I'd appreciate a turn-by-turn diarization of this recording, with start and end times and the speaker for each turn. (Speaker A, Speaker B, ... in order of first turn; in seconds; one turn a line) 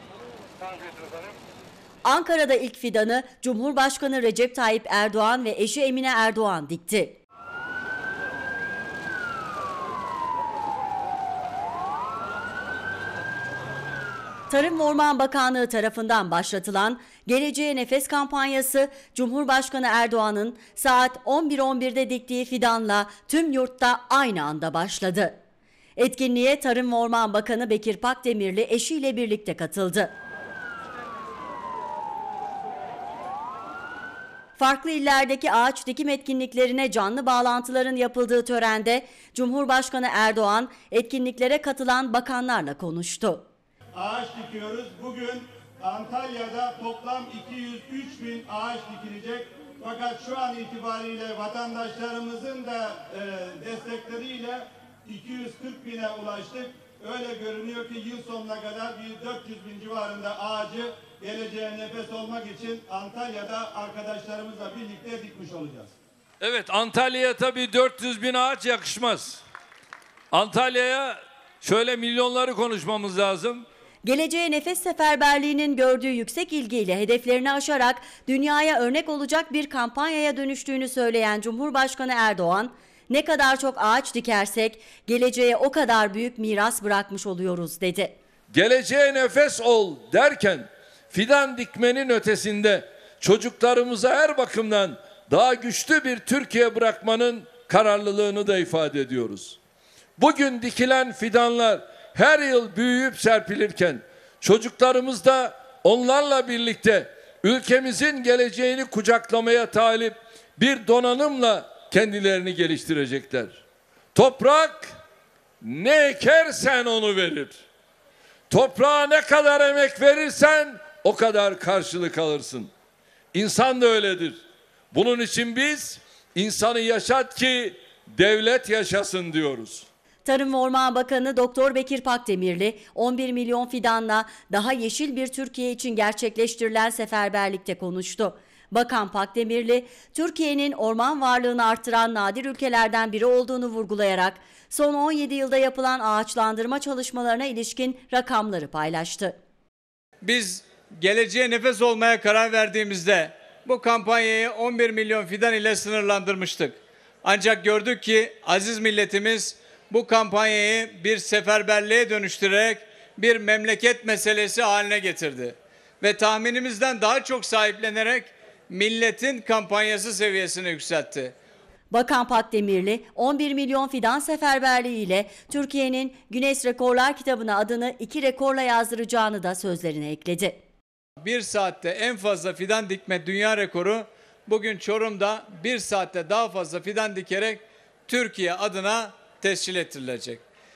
Speaker A: 2.0-7.2
Speaker A: 14.5-25.4
Speaker A: 26.0-30.1
Speaker A: 34.6-43.4
Speaker B: 44.0-65.9
Speaker C: 66.4-69.4
Speaker C: 70.3-73.7
Speaker A: 74.0-88.1
Speaker C: 88.5-99.6
Speaker C: 100.2-113.6
Speaker C: 114.1-114.9
Speaker C: 115.6-117.6
Speaker C: 118.5-122.7
Speaker C: 123.3-124.4
Speaker C: 124.9-129.9
Speaker A: 130.2-149.3
Speaker D: 150.2-171.3
Speaker A: 171.9-180.6
Speaker D: 181.2-190.4